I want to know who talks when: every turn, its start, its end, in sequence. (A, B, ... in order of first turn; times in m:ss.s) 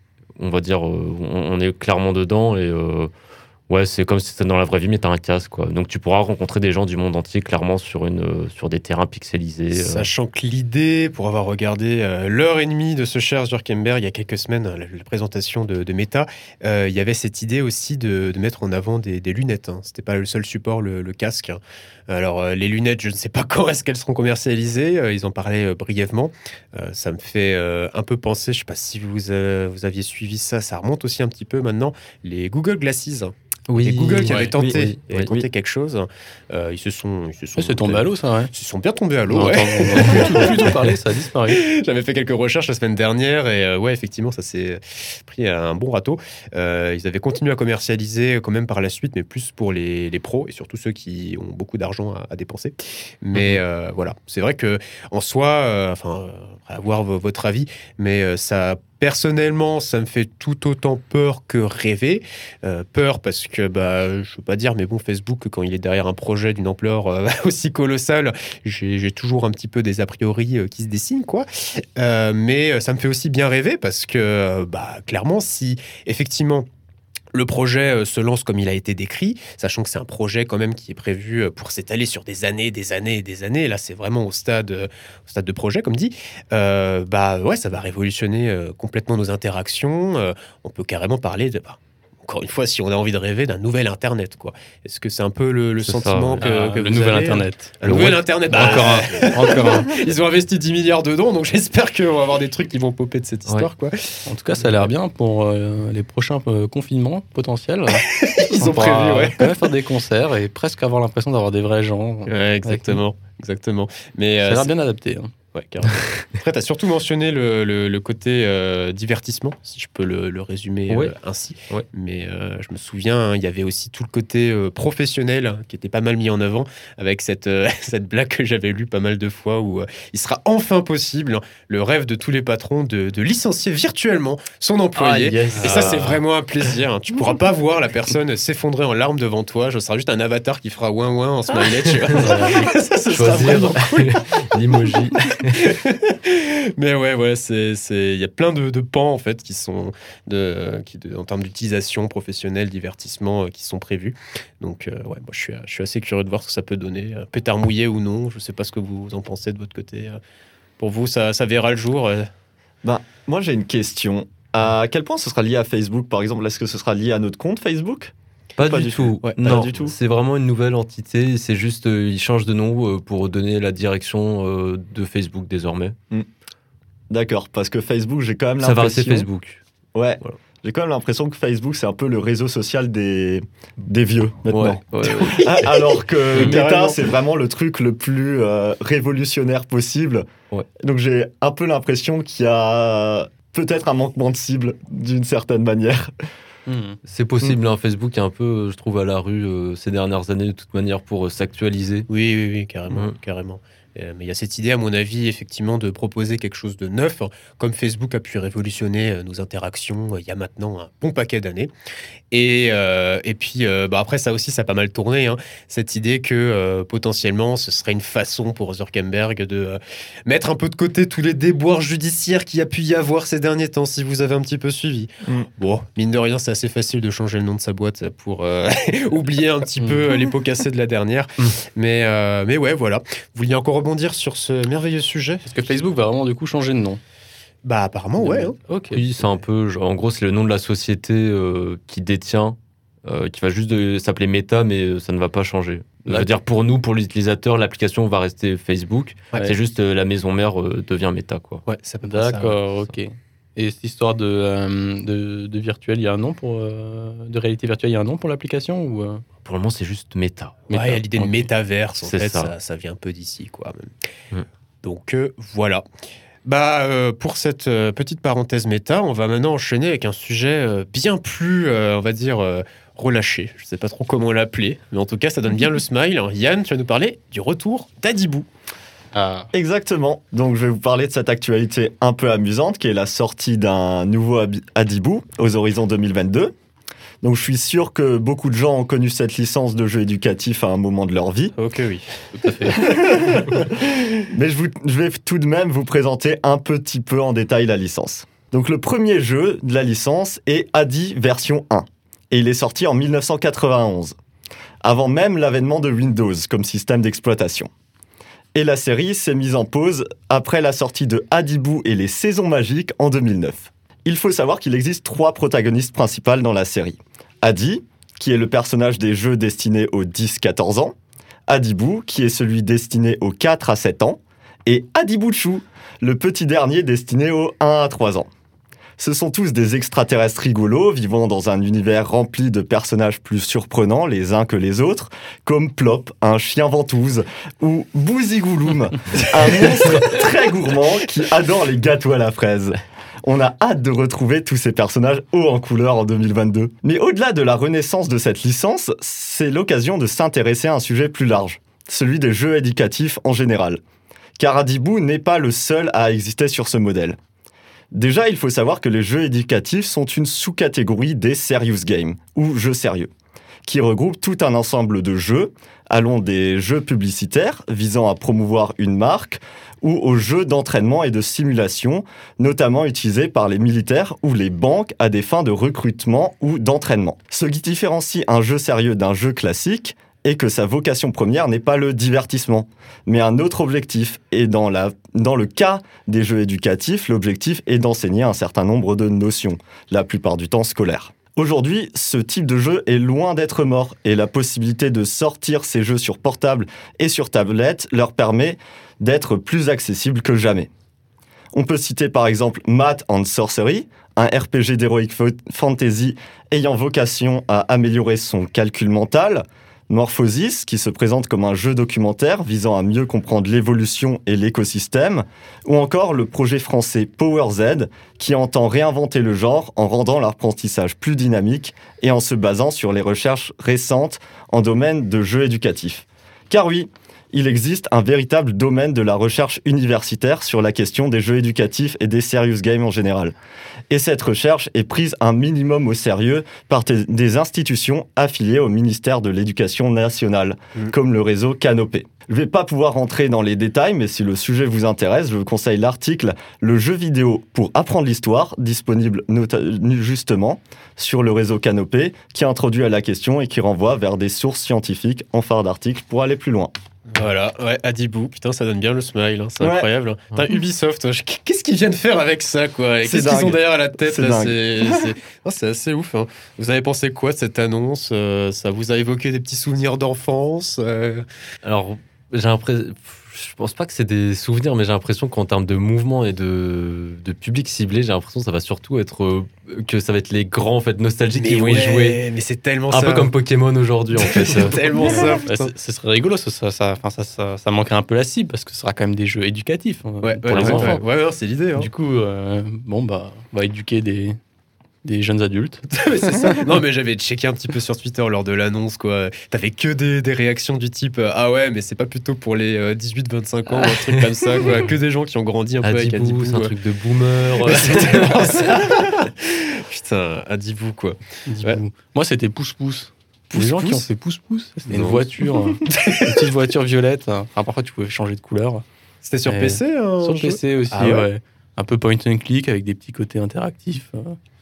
0:00.4-0:03.1 A
0:03.7-0:10.1 A
0:09.7-0:40.9 B
0:33.7-0:35.4 A
0:34.6-0:35.5 C
0:37.6-0:38.5 D
0:39.3-0:41.6 D
0:41.5-1:16.7 B
0:53.3-0:53.6 A
1:17.3-1:44.8 B
1:35.8-1:36.4 A
1:36.4-1:39.9 D
1:37.8-1:39.2 A
1:44.3-1:48.0 D
1:48.1-1:49.5 B
1:48.6-1:53.0 D
1:52.3-1:54.7 B
1:54.4-1:55.3 D
1:55.5-2:24.4 B
2:00.9-2:01.1 A
2:14.9-2:16.2 A
2:15.5-2:15.9 D
2:22.2-2:22.6 D
2:23.1-2:25.7 A
2:25.3-2:40.2 B
2:40.8-2:42.3 B
2:42.8-2:50.0 C
2:48.6-2:56.0 A
2:49.2-2:49.6 B
2:57.1-2:59.3 C
2:58.6-2:59.6 A
2:59.9-3:16.1 C
3:04.5-3:05.8 A
3:05.1-3:05.4 B
3:06.3-3:07.0 B
3:16.7-3:17.0 D
3:17.0-3:22.1 A
3:22.1-3:31.7 B
3:32.3-3:55.6 B
3:55.5-3:57.0 D
3:57.6-3:58.6 B
3:58.2-3:59.0 D
3:58.9-4:11.6 A
4:06.1-4:06.3 D
4:11.6-4:12.5 B
4:12.0-4:19.2 D
4:19.4-4:20.7 A
4:20.7-4:23.9 B
4:20.7-4:21.4 D
4:22.0-4:22.5 A
4:24.8-4:25.8 B
4:26.4-4:38.5 B
4:39.1-4:39.5 D
4:39.5-4:46.5 C
4:47.2-4:51.5 C
4:51.6-4:52.1 B
4:52.4-4:52.8 D
4:52.6-4:53.7 B
4:54.3-5:04.2 C
5:04.8-5:07.7 C
5:08.5-5:20.9 C
5:21.5-5:28.3 C
5:29.0-5:53.8 C
5:54.4-5:57.2 C
5:57.9-6:03.1 C
6:03.6-6:40.7 C
6:41.5-7:13.3 C
7:13.9-7:36.7 C
7:37.1-7:51.2 B
7:39.6-7:39.9 C
7:43.0-7:45.1 C
7:51.6-8:02.2 A
8:01.4-8:03.3 B
8:02.9-8:04.9 A
8:04.2-8:05.7 B
8:05.0-8:11.0 D
8:10.2-8:11.9 B
8:10.5-8:11.0 A
8:11.8-8:14.4 D
8:15.0-8:15.9 D
8:15.9-8:26.7 B
8:25.8-8:28.7 A
8:27.6-8:31.8 B
8:31.5-8:38.8 D
8:33.5-8:34.1 B
8:34.9-8:36.5 B
8:39.2-8:41.3 B
8:39.4-8:44.4 D